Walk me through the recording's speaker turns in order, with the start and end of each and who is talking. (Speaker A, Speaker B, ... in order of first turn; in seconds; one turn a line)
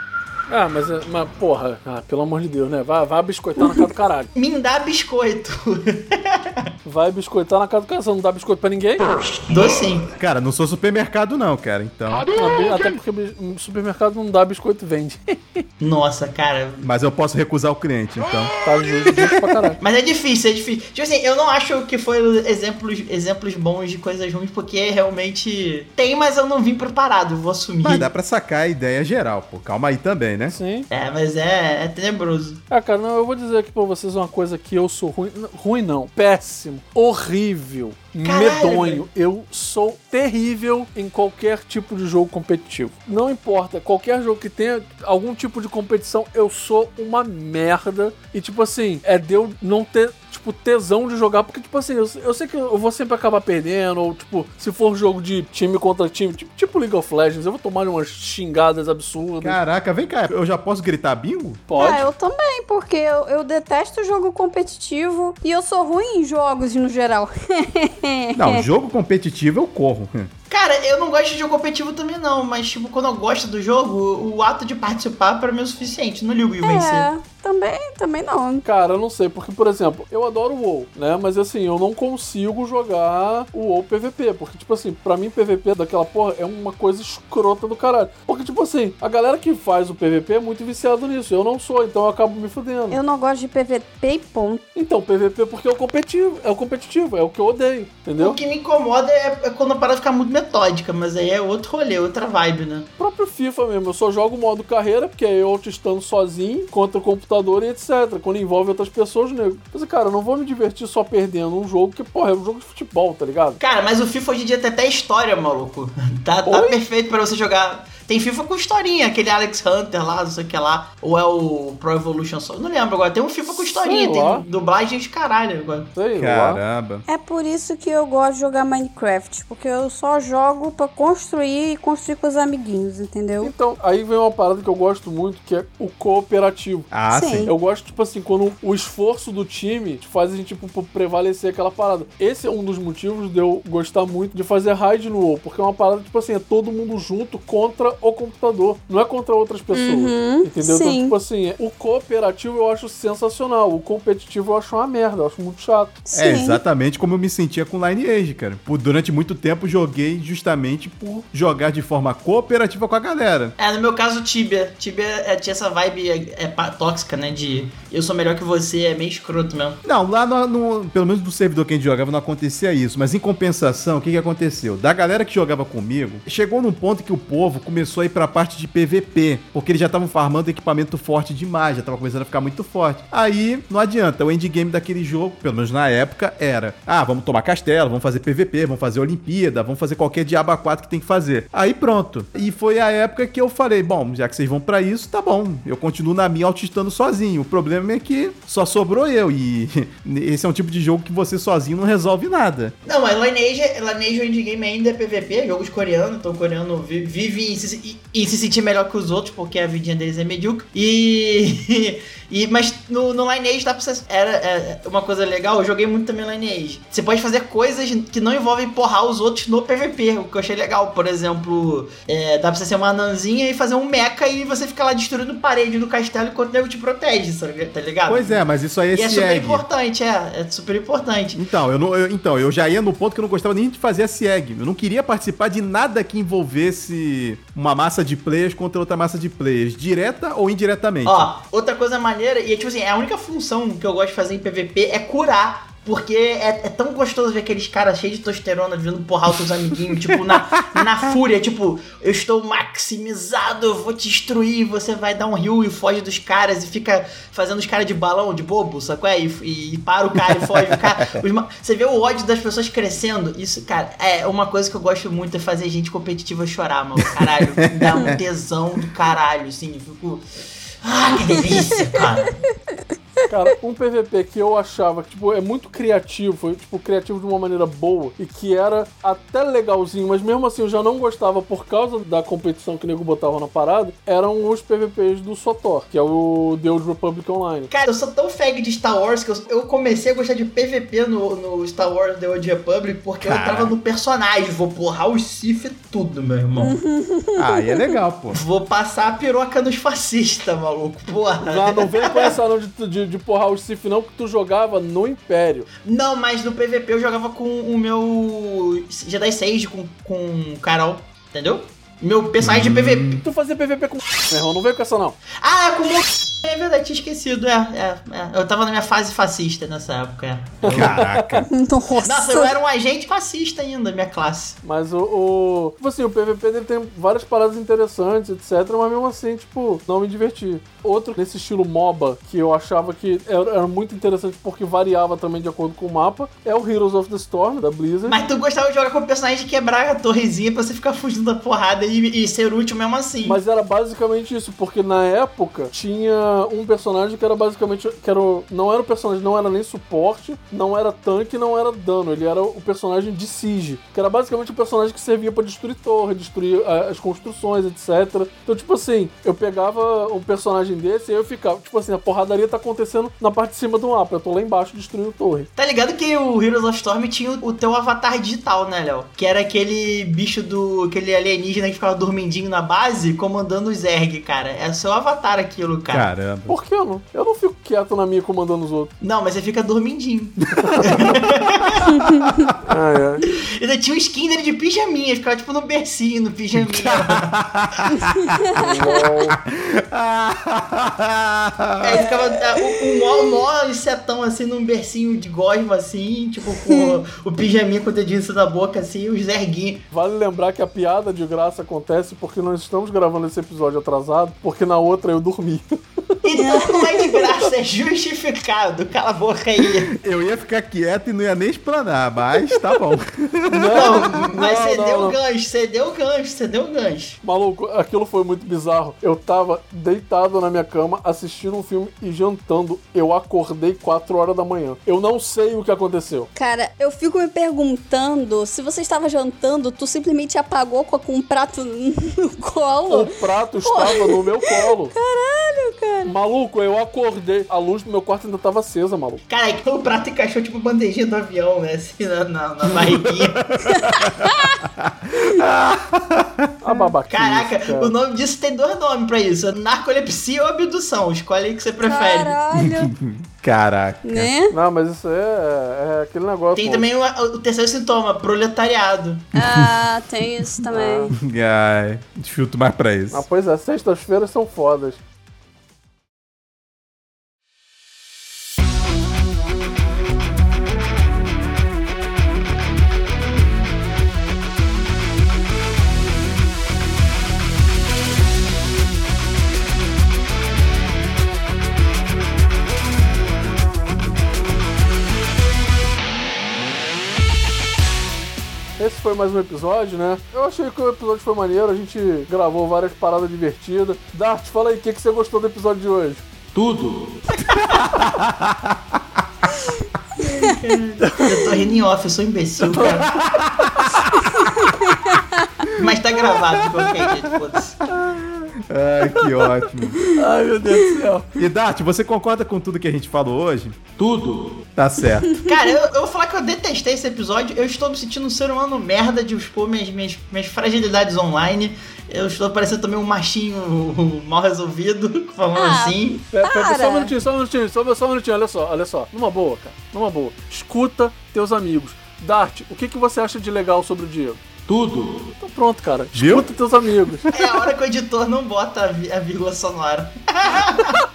Speaker A: 0.5-4.3
Speaker B: 4.3-6.7
Speaker A: 6.8-9.3
Speaker B: 9.5-10.1
Speaker C: 10.2-12.2
Speaker A: 12.3-15.6
Speaker B: 15.8-16.8
Speaker C: 16.8-18.5
Speaker A: 18.6-19.8
Speaker B: 19.8-28.1
Speaker C: 27.8-30.6
Speaker A: 30.5-30.9
Speaker B: 30.9-32.6
Speaker A: 32.7-59.6
Speaker B: 38.2-39.0
Speaker C: 59.4-61.6
Speaker A: 61.7-62.0
Speaker D: 61.8-68.7
Speaker C: 68.3-70.3
Speaker B: 70.5-77.1
Speaker D: 76.6-78.6
Speaker A: 78.6-93.0
Speaker D: 92.9-94.6
Speaker A: 94.7-98.4
Speaker B: 98.2-102.9
Speaker A: 103.0-113.6
Speaker B: 113.6-125.9
Speaker A: 116.5-116.8
Speaker A: 123.5-124.4
Speaker A: 125.9-126.6
Speaker C: 126.2-127.0
Speaker D: 127.1-133.5
Speaker A: 133.4-136.9
Speaker C: 136.9-137.5
Speaker D: 137.1-137.5
Speaker A: 137.4-156.0
Speaker D: 149.7-151.1
Speaker D: 156.1-156.6
Speaker C: 156.1-163.5
Speaker B: 163.6-169.8
Speaker C: 169.8-202.7
Speaker B: 202.8-228.4
Speaker C: 228.1-229.6
Speaker B: 228.9-231.4
Speaker C: 231.3-241.3
Speaker B: 241.0-270.2
Speaker C: 250.4-250.8
Speaker C: 260.2-261.2
Speaker C: 267.7-268.2
Speaker B: 270.8-272.4
Speaker A: 273.3-287.7
Speaker B: 287.7-296.8
Speaker C: 293.2-293.8
Speaker D: 296.6-297.9
Speaker C: 297.4-298.4
Speaker B: 298.3-302.3
Speaker A: 301.4-305.7
Speaker B: 305.8-313.2
Speaker C: 312.4-313.2
Speaker A: 313.2-315.2
Speaker B: 315.4-321.0
Speaker A: 320.6-321.4
Speaker C: 320.7-321.5
Speaker D: 321.5-322.5
Speaker B: 322.0-324.6
Speaker A: 324.6-338.2
Speaker B: 338.1-343.4
Speaker A: 343.2-365.5
Speaker B: 365.6-376.1
Speaker C: 375.9-376.6
Speaker A: 376.5-378.9
Speaker B: 379.0-381.9
Speaker C: 380.5-381.1
Speaker A: 380.6-381.1
Speaker D: 382.0-382.2
Speaker C: 382.5-382.7
Speaker A: 382.7-383.2
Speaker B: 383.3-387.3
Speaker C: 386.5-392.1
Speaker A: 388.6-389.4
Speaker B: 391.8-399.8
Speaker D: 396.7-397.0
Speaker A: 399.9-406.2
Speaker B: 406.2-409.9
Speaker D: 406.4-407.2
Speaker C: 409.9-414.2
Speaker A: 413.5-415.2
Speaker B: 413.7-417.2
Speaker A: 417.2-426.3
Speaker D: 426.3-433.1
Speaker A: 432.9-434.9
Speaker D: 433.6-436.1
Speaker A: 436.0-439.2
Speaker B: 439.3-443.4
Speaker C: 443.6-446.5
Speaker D: 444.0-444.6
Speaker A: 446.6-447.9
Speaker B: 447.1-452.3
Speaker D: 451.8-452.9
Speaker C: 452.6-454.3
Speaker D: 454.0-454.5
Speaker A: 454.5-456.9
Speaker B: 456.6-459.3
Speaker D: 459.3-461.1
Speaker A: 460.7-461.1
Speaker C: 461.1-463.2
Speaker A: 463.1-465.0
Speaker A: 488.8-496.2
Speaker E: 496.5-497.2
Speaker B: 497.4-497.8
Speaker C: 497.8-499.0
Speaker B: 500.1-503.1
Speaker A: 501.0-501.4
Speaker A: 502.7-503.0
Speaker C: 502.8-504.7
Speaker D: 504.4-505.2
Speaker B: 505.8-507.8
Speaker C: 506.4-507.2
Speaker A: 508.1-508.4
Speaker C: 508.6-510.0
Speaker A: 509.1-509.6
Speaker A: 510.1-511.3
Speaker C: 511.4-513.8
Speaker E: 514.0-514.7
Speaker C: 514.8-515.5
Speaker B: 515.5-526.2
Speaker D: 525.5-527.1
Speaker A: 526.3-534.4
Speaker E: 534.6-535.3
Speaker A: 535.4-537.3
Speaker C: 536.1-536.5
Speaker C: 537.2-537.5
Speaker B: 537.3-541.0